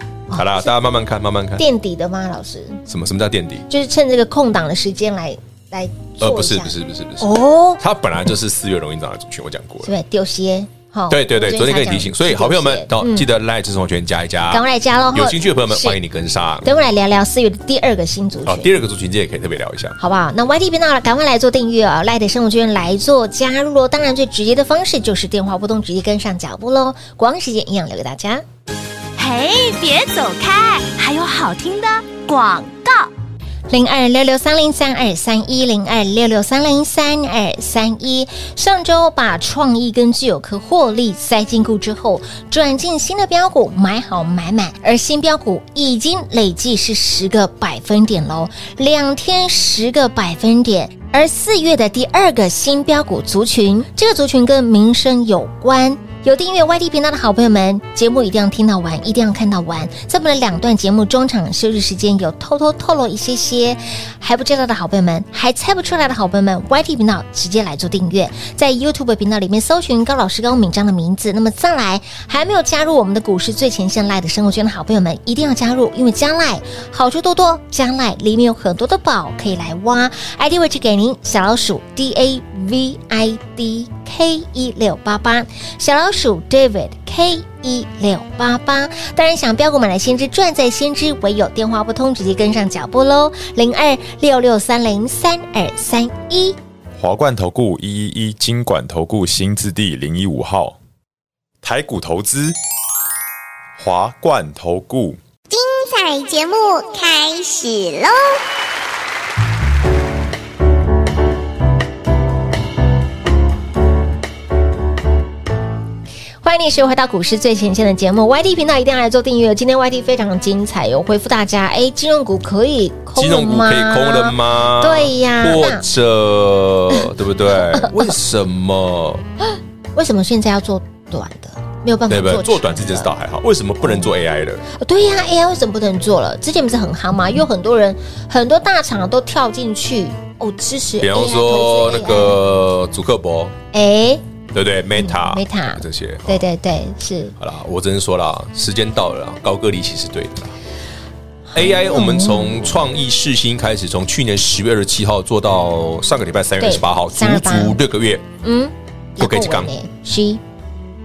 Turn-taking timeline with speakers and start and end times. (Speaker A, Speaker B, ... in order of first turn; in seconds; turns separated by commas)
Speaker A: 0.3-1.6, Speaker B: 1.6-2.8, Speaker A: 2.9-3.6, Speaker B: 3.7-7.8, Speaker A: 6.2-9.9, Speaker B: 9.8-13.3, Speaker A: 11.1-16.7, Speaker B: 14.5-16.0, Speaker B: 16.6-18.7, Speaker A: 18.4-20.0, Speaker B: 20.0-28.4, Speaker C: 29.2-33.1, Speaker B: 33.7-96.6, Speaker D: 97.0-100.8, Speaker D: 101.6-102.6, Speaker D: 103.8-105.2, Speaker E: 105.5-108.4, Speaker B: 116.4-125.8, Speaker A: 123.1-129.2, Speaker B: 127.7-128.1, Speaker B: 129.9-133.1, Speaker A: 132.1-134.6, Speaker B: 134.7-142.4, Speaker A: 141.0-143.5, Speaker B: 143.7-144.2, Speaker A: 144.5-146.4, Speaker B: 144.9-147.3, Speaker A: 147.4-150.5, Speaker B: 151.5-152.7, Speaker A: 151.5-158.2, Speaker B: 156.6-157.8, Speaker B: 158.4-160.4, Speaker A: 159.2-159.7